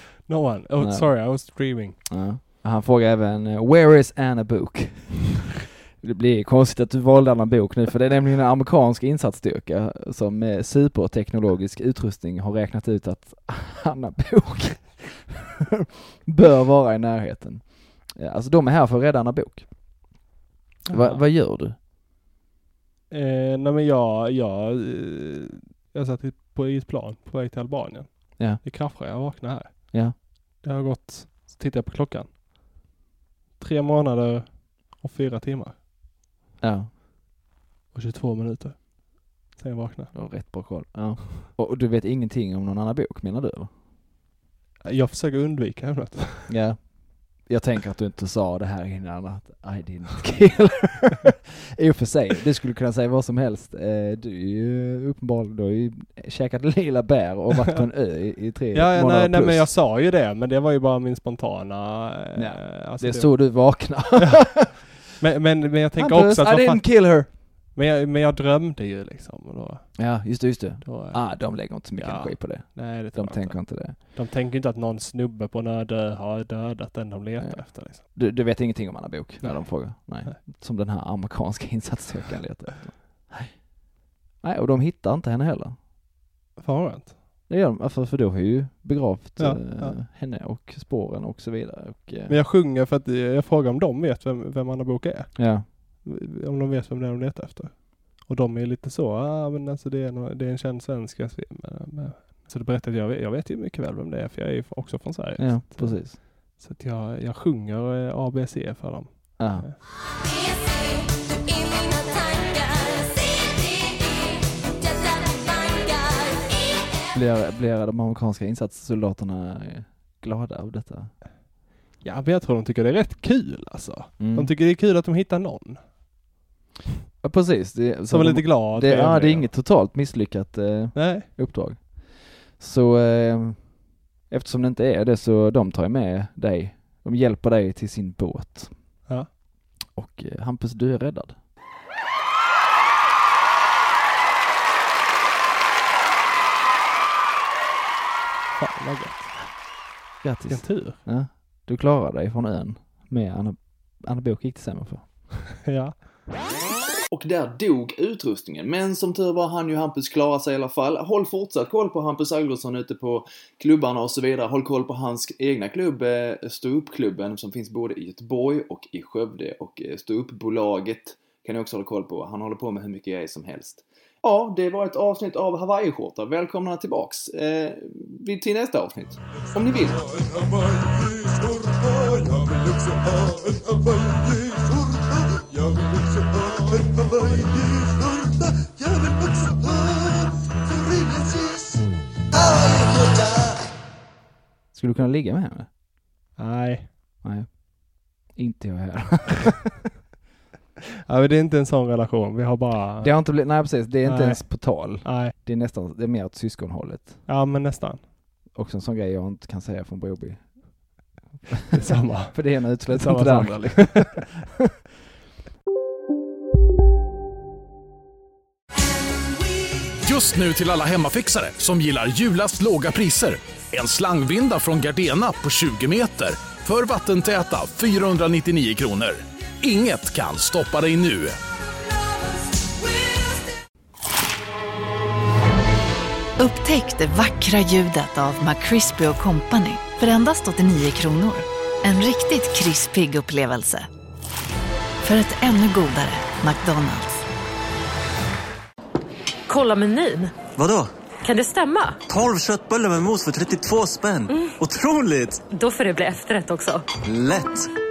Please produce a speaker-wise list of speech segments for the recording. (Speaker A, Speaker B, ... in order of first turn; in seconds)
Speaker A: 0.3-2.0, 20.9-21.2, 23.1-32.3, 33.6-35.8, 37.9-40.4, 44.9-46.5, 58.7-70.1, 70.8-78.0, 79.4-80.4, 86.6-87.2, 89.4-90.0, 92.3-109.8, 122.0-125.9, 128.1-129.5, 130.9-131.3, 148.6-149.4, 150.5-151.0, 155.6-156.0, 196.4-196.9, 201.1-205.3, 207.3-208.1, 211.7-214.2
Speaker B: 0.8-1.4, 2.0-19.7, 20.9-21.8, 28.4-28.6, 36.6-36.9, 40.1-43.7, 46.5-59.7, 62.4-64.8, 66.0-67.4, 70.0-74.0, 77.4-83.6, 84.4-85.8, 87.5-92.4, 95.3-95.7, 105.4-106.2, 109.4-109.7, 117.1-121.1, 124.2-124.5, 127.2-139.1, 139.9-141.4, 150.2-155.1, 194.7-195.7, 197.2-199.7, 203.0-207.2, 208.5-214.5
Speaker C: 157.1-180.2
Speaker D: 220.0-231.4
Speaker E: 236.4-243.9, 245.0-247.2
Speaker F: 249.5-250.4, 251.2-252.0, 254.3-254.6, 255.5-256.9
Speaker G: 250.5-250.9, 252.1-255.4, 257.0-257.7